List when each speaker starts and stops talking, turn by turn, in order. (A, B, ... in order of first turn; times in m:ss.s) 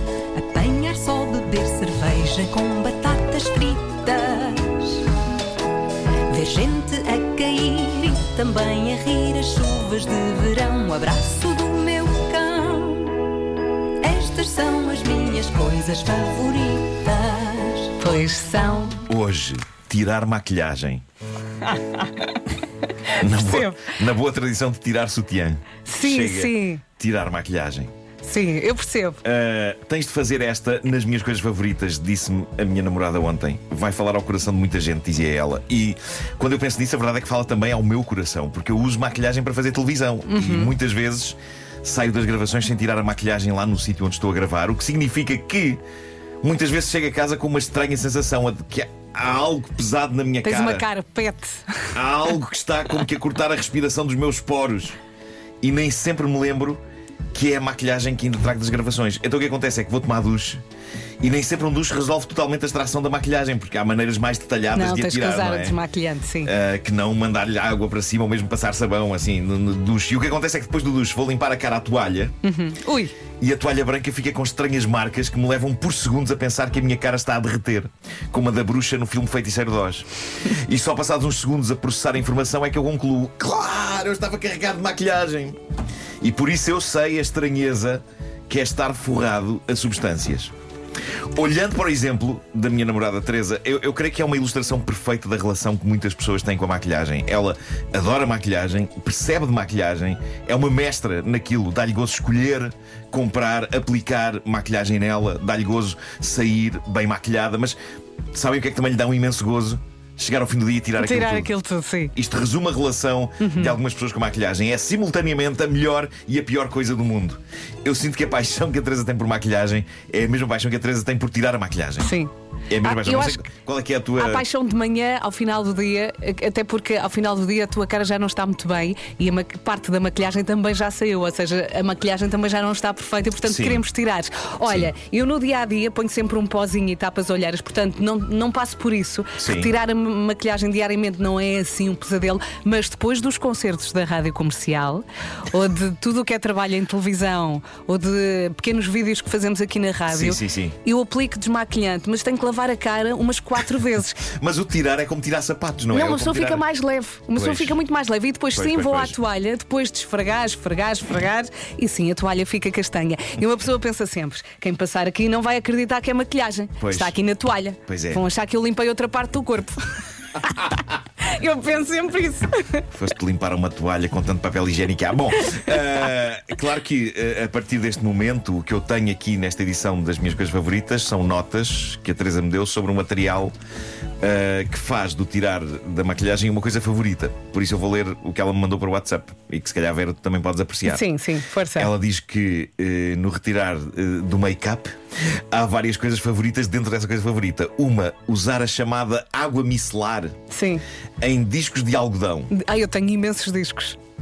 0:00.3-0:05.1 A
0:06.3-0:13.2 A
0:14.0-0:17.9 A
0:18.0-0:19.0 B
0:19.1-0:21.0 C
0:21.6-0:22.4 B
0:23.0-0:23.9 B
0:23.2-0:27.9 C
0:25.8-0:26.8 B
0:28.2-0:29.2 B
0:29.2-0:45.8 C
0:40.3-0:40.7 B
0:46.4-0:50.9 C
0:50.4-0:51.9 B
0:51.9-0:55.0 C
0:55.6-0:56.8 C
0:57.3-1:00.6 C
1:01.2-1:05.8 C
1:04.7-1:06.5 B
1:06.4-1:12.3 C
1:12.4-1:13.1 B
1:13.4-1:25.6 C
1:26.2-1:30.5 C
1:31.3-1:47.8 C
1:48.3-1:51.5 C
1:51.0-1:52.1 B
1:52.1-2:02.1 C
1:53.4-1:53.8 B
2:02.0-2:03.4 B
2:02.7-2:04.4 C
2:04.2-2:34.2 B
2:13.4-2:13.8 C
2:14.6-2:14.9 C
2:19.4-2:19.7 C
2:30.1-2:30.8 C
2:34.2-2:36.6 C
2:35.9-2:52.8 B
2:37.3-2:37.8 C
2:38.5-2:39.2 C
2:46.8-2:47.2 C
2:47.9-2:48.2 C
2:52.9-3:03.5 C
3:04.2-3:11.1 C
3:10.9-3:11.9 B
3:11.8-3:20.4 C
3:20.5-3:20.8 B
3:21.2-3:22.5 C
3:22.5-3:24.0 B